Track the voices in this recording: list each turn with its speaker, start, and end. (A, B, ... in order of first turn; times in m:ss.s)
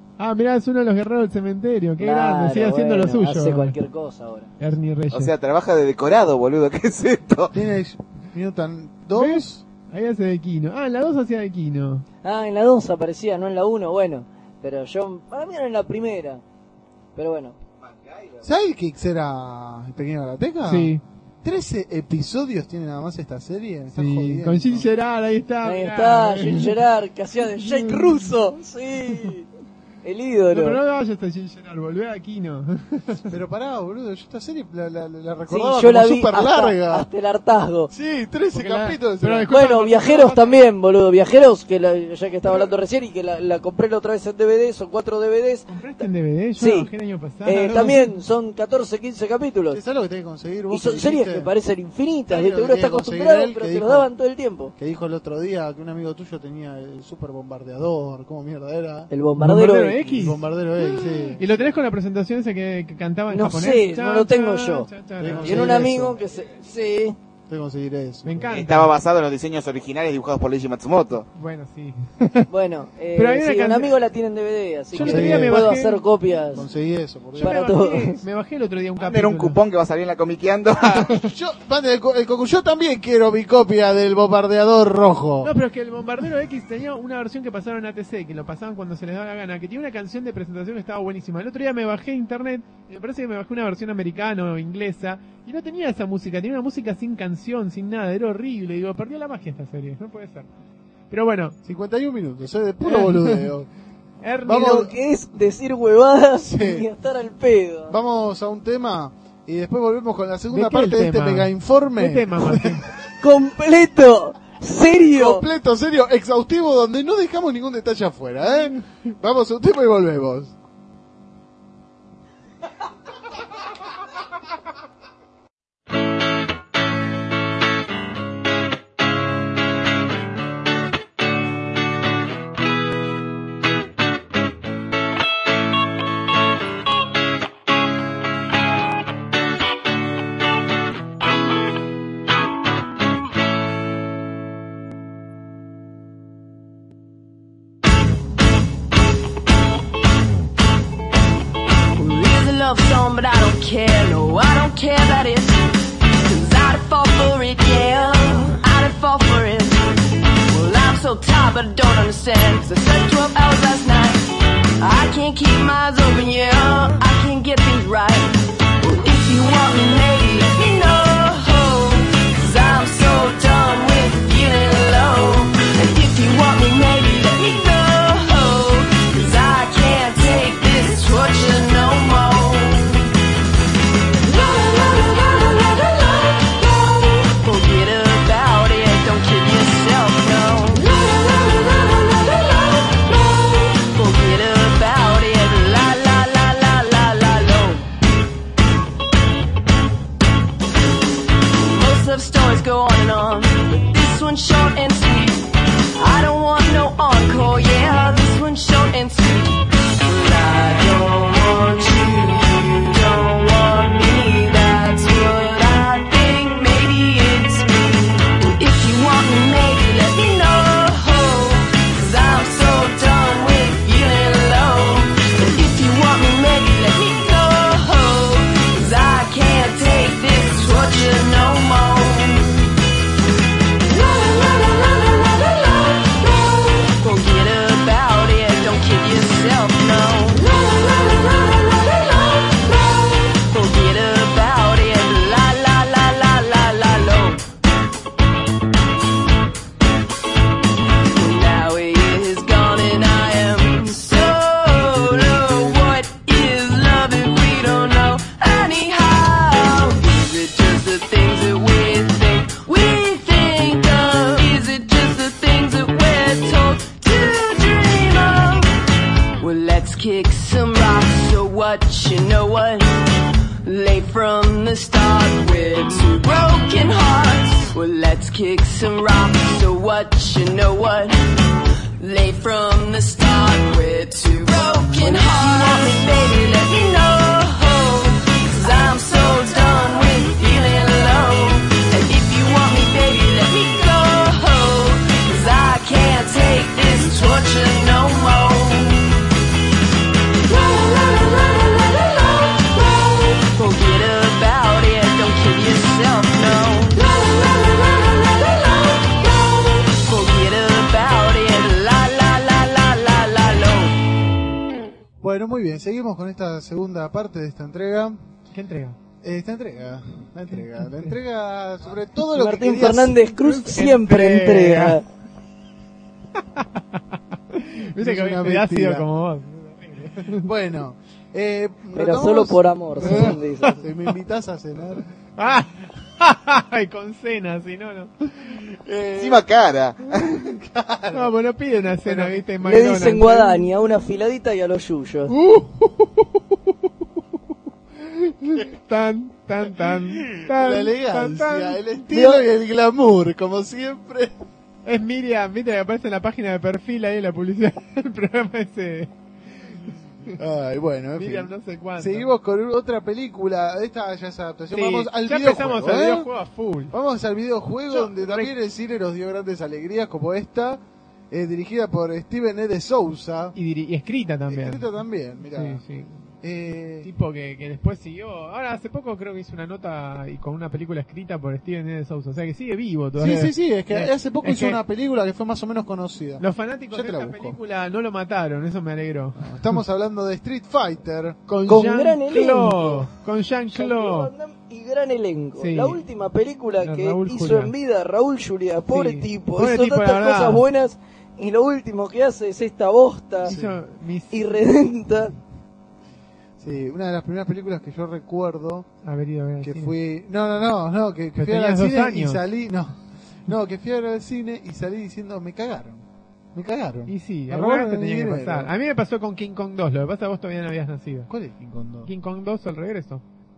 0:00.2-0:03.8 A
0:02.0-0:04.5 B
0:04.6-0:05.3 A
0:05.1-0:07.6 C
0:07.5-0:09.6 D
0:09.1-0:12.1 A
0:12.2-0:16.4 B
0:17.2-0:17.6 B
0:17.8-0:18.4 C
0:18.4-0:24.9 D
0:20.6-0:21.0 A
0:23.9-0:26.8 A
0:25.6-0:29.5 B
0:27.5-0:28.3 A
0:30.0-0:30.8 B
0:30.5-0:33.3 A
0:33.3-0:37.1 D
0:35.5-0:37.9 B
0:37.9-0:39.5 D
0:38.5-0:40.6 A
0:39.5-0:46.1 B
0:45.7-0:48.1 A
0:46.6-0:46.9 B
0:47.4-0:49.8 B
0:49.7-0:51.5 D
0:50.7-0:54.7 B
0:52.3-0:54.1 D
0:54.8-0:59.1 D
0:59.1-1:00.3 B
0:59.4-1:05.9 A
1:00.0-1:01.6 D
1:03.3-1:07.2 B
1:05.2-1:06.2 D
1:07.5-1:08.6 D
1:08.2-1:08.9 A
1:08.5-1:11.3 C
1:11.4-1:12.5 A
1:12.5-1:16.7 B
1:13.2-1:14.0 A
1:14.9-1:16.0 A
1:14.9-1:15.7 D
1:16.5-1:17.6 D
1:17.4-1:19.6 A
1:17.4-1:18.2 B
1:19.0-1:21.2 C
1:21.1-1:25.5 D
1:25.4-1:40.5 A
1:41.1-1:41.6 A
1:41.6-1:43.7 D
1:42.8-1:43.5 A
1:44.2-1:44.9 A
1:44.5-1:44.9 D
1:44.5-1:48.0 B
1:46.4-1:46.9 D
1:47.9-1:52.8 D
1:50.5-1:52.9 A
1:53.2-1:55.4 B
1:55.1-2:00.6 D
2:32.0-3:03.1 E
3:04.4-3:06.5 E
3:07.3-3:13.0 E
3:13.8-3:17.9 E
3:21.5-3:52.7 E
3:54.1-3:55.5 E
3:56.9-4:00.8 E
4:03.5-4:07.4 E
4:11.1-4:28.8 E
4:29.4-4:59.2 E
5:01.1-5:01.9 E
5:03.5-5:07.3 E
5:09.9-5:14.0 E
5:15.2-5:18.2 D
5:18.5-5:19.0 A
5:19.2-5:23.2 D
5:20.7-5:21.1 A
5:22.3-5:25.0 B
5:23.3-5:25.0 A
5:26.5-5:30.5 A
5:28.0-5:29.1 D
5:30.4-5:35.1 D
5:31.9-5:33.8 B
5:33.0-5:33.4 A
5:35.4-5:38.1 A
5:38.5-5:39.4 D
5:39.2-5:40.6 C
5:40.2-5:41.3 D
5:41.1-5:43.7 A
5:42.0-5:42.4 D
5:42.6-5:45.3 B
5:45.3-5:46.7 A
5:48.1-5:51.8 A
5:49.8-5:54.3 D
5:52.1-5:52.4 B
5:54.8-5:59.1 A
6:00.3-6:06.3 D
6:01.2-6:02.3 A
6:04.7-6:06.9 A
6:06.9-6:13.6 D
6:07.9-6:08.5 A
6:13.6-6:14.8 A
6:14.5-6:15.8 D
6:15.5-6:16.1 A
6:16.4-6:17.1 D
6:17.0-6:24.8 A
6:23.2-6:27.6 D
6:26.4-6:29.8 A
6:29.4-6:31.4 D
6:31.5-6:34.3 A
6:31.7-6:33.1 B
6:33.7-6:43.5 B
6:35.6-6:36.0 A
6:36.8-6:37.7 A
6:38.9-6:40.6 A
6:43.4-6:44.6 A
6:43.4-6:43.8 D
6:44.3-6:45.3 B
6:46.6-6:48.9 D
6:49.0-6:50.0 A
6:49.6-6:58.7 D
6:51.4-6:52.4 A
6:57.1-7:01.3 A
7:01.3-7:02.1 D
7:02.1-7:03.2 A